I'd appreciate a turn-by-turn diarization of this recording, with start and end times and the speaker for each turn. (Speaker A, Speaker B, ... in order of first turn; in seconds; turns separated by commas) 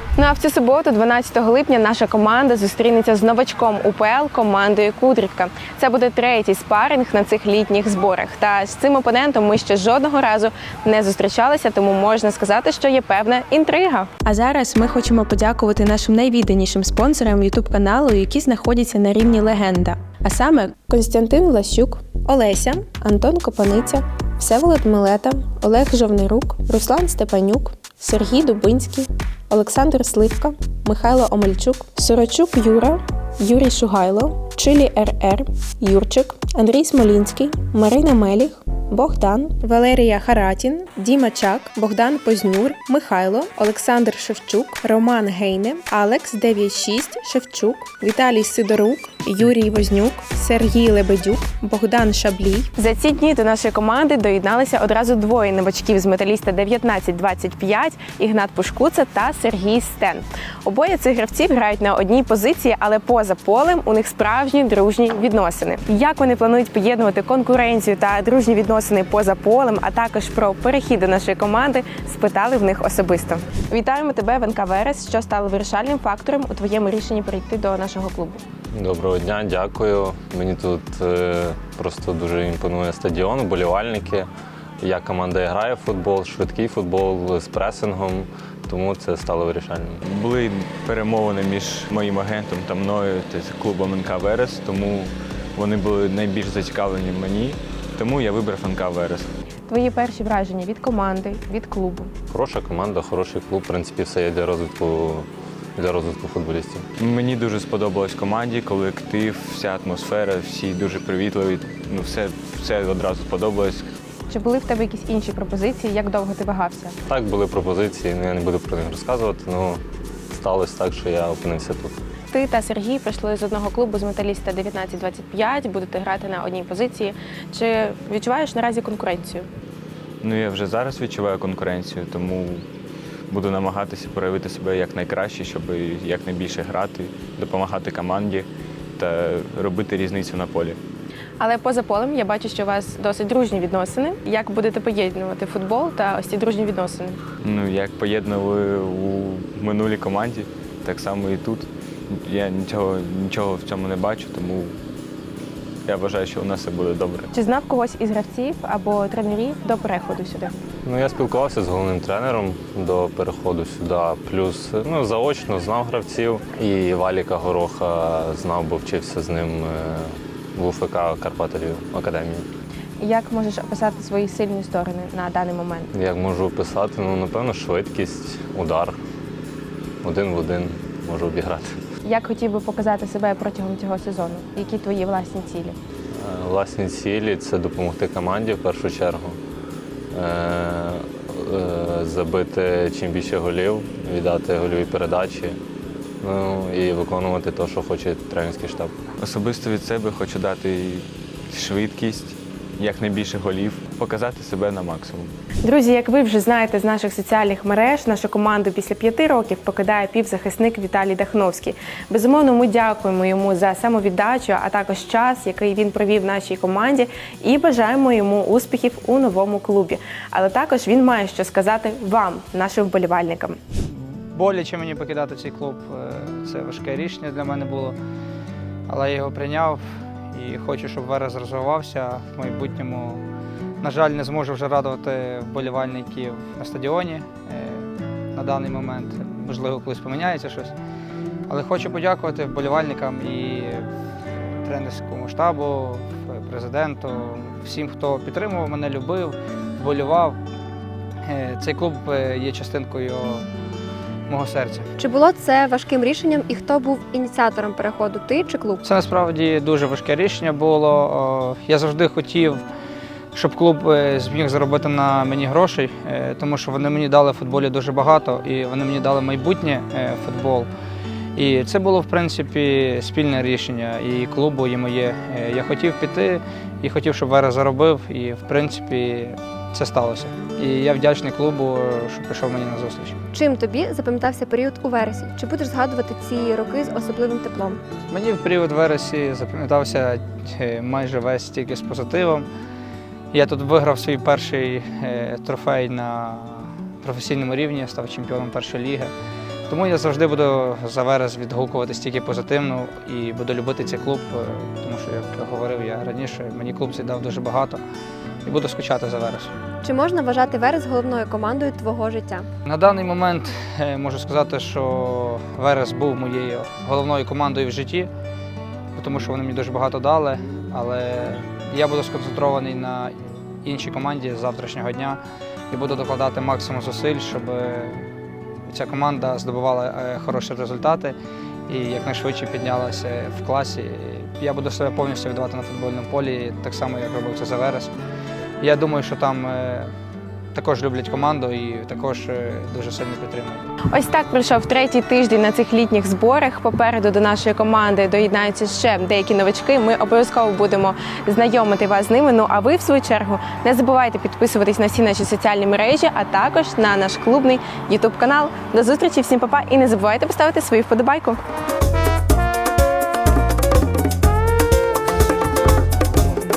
Speaker A: 0.2-78.4, Speaker B: 78.7-84.3, Speaker B: 84.8-90.0, Speaker C: 90.0-99.3, Speaker A: 99.7-102.1, Speaker B: 102.3-106.8, Speaker C: 107.0-113.9, Speaker A: 114.3-117.0, Speaker B: 117.1-121.9, Speaker A: 122.3-129.5, Speaker C: 130.2-132.6, Speaker C: 133.3-140.8, Speaker A: 141.4-147.2, Speaker C: 147.4-154.8, Speaker C: 155.9-157.3, Speaker A: 157.3-160.6, Speaker B: 160.8-172.5, Speaker A: 173.0-175.9, Speaker B: 175.9-179.0, Speaker B: 180.0-181.8, Speaker A: 182.0-185.8, Speaker B: 186.1-189.4, Speaker B: 190.1-195.6, Speaker B: 196.2-198.9, Speaker C: 199.2-205.4, Speaker A: 205.6-223.6, Speaker D: 223.8-228.0, Speaker D: 228.9-233.2, Speaker D: 233.8-240.7, Speaker D: 241.5-243.9, Speaker D: 244.6-250.4, Speaker D: 251.3-253.4, Speaker D: 254.3-254.9, Speaker E: 255.0-258.8, Speaker D: 258.8-262.6, Speaker D: 263.3-270.7, Speaker D: 271.4-283.1, Speaker E: 283.3-287.8, Speaker D: 288.1-292.5, Speaker D: 293.3-299.1, Speaker D: 299.7-307.8, Speaker D: 308.4-309.5, Speaker E: 309.8-312.5, Speaker D: 312.6-318.1, Speaker D: 319.0-325.2, Speaker D: 325.7-328.1, Speaker D: 328.6-331.1, Speaker D: 331.7-337.9, Speaker D: 338.6-339.9, Speaker D: 340.5-343.7, Speaker A: 343.9-361.4